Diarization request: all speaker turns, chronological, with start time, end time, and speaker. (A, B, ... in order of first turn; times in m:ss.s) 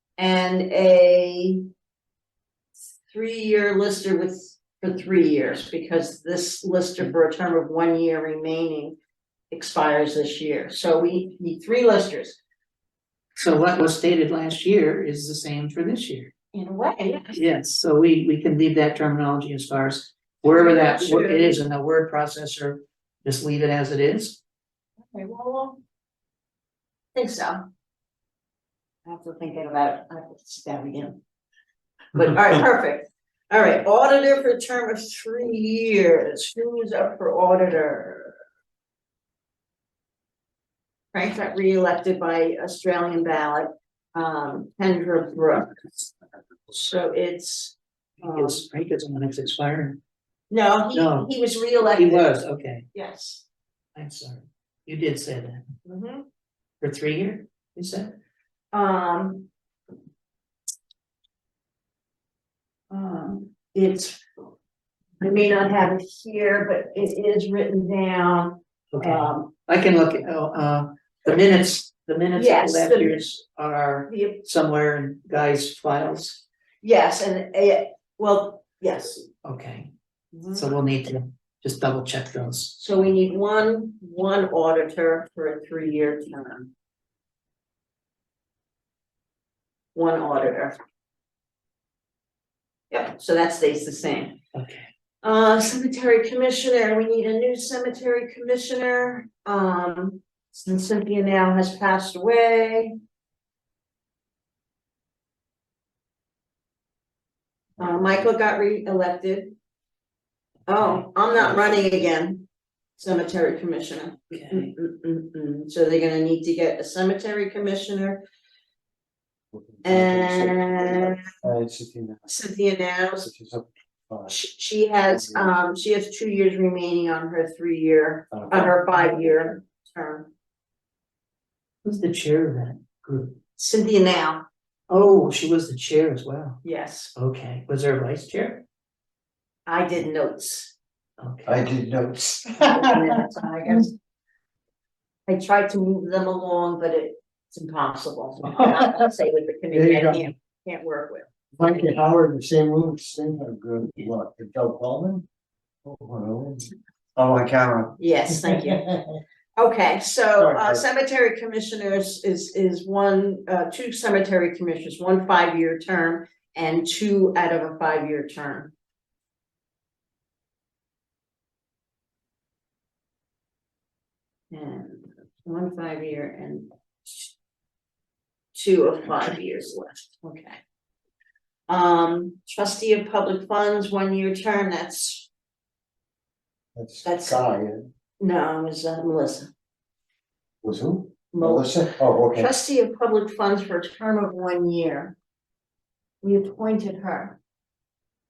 0:00.2-0:01.7 A
0:02.9-0:09.0 A
0:09.5-0:12.4 A
0:13.4-0:16.3 B
0:16.5-0:17.4 A
0:17.3-0:24.4 B
0:20.5-0:21.6 A
0:25.0-0:25.8 A
0:27.2-0:27.7 A
0:29.0-0:31.2 A
0:32.1-0:38.4 A
0:41.1-0:46.1 A
0:46.7-0:48.6 A
0:48.2-0:50.0 B
0:50.5-0:52.4 A
0:50.9-0:51.3 B
0:51.9-0:52.8 B
0:52.9-0:53.4 A
0:54.0-0:55.6 B
0:55.8-0:56.3 A
0:56.8-0:58.2 B
0:58.7-0:59.5 A
1:02.9-1:04.2 A
1:05.2-1:09.5 A
1:08.9-1:16.4 B
1:12.4-1:13.3 A
1:14.1-1:14.4 A
1:16.8-1:19.3 A
1:19.4-1:19.9 B
1:20.3-1:20.7 A
1:20.6-1:22.8 B
1:22.8-1:26.7 A
1:30.0-1:30.8 A
1:32.9-1:34.4 A
1:34.5-1:34.9 B
1:35.2-1:43.0 A
1:47.8-1:49.5 A
1:50.7-1:52.5 A
1:51.4-1:52.0 C
1:53.0-1:58.2 A
1:54.3-1:54.7 B
1:59.5-2:02.3 C
1:59.8-2:01.3 A
2:02.3-2:03.3 A
2:03.2-2:04.4 C
2:04.3-2:10.3 A
2:05.1-2:05.6 C
2:08.3-2:08.9 C
2:11.8-2:13.4 B
2:13.6-2:14.4 A
2:14.9-2:16.6 B
2:16.6-2:17.1 A
2:17.2-2:18.6 B
2:19.7-2:20.7 A
2:21.2-2:21.7 B
2:21.4-2:23.2 C
2:22.6-2:23.9 A
2:25.3-2:31.3 A
2:28.7-2:29.1 C
2:29.7-2:30.2 C
2:31.6-2:35.3 C
2:35.8-2:38.7 C
2:38.0-2:48.7 A
2:40.4-2:40.8 C
2:54.5-2:57.3 A
2:58.5-3:00.6 A
3:01.7-3:05.3 A
3:06.8-3:07.9 C
3:07.0-3:07.4 A
3:08.2-3:09.5 A
3:10.6-3:12.5 C
3:11.3-3:11.8 A
3:12.3-3:15.2 A
3:16.2-3:17.4 A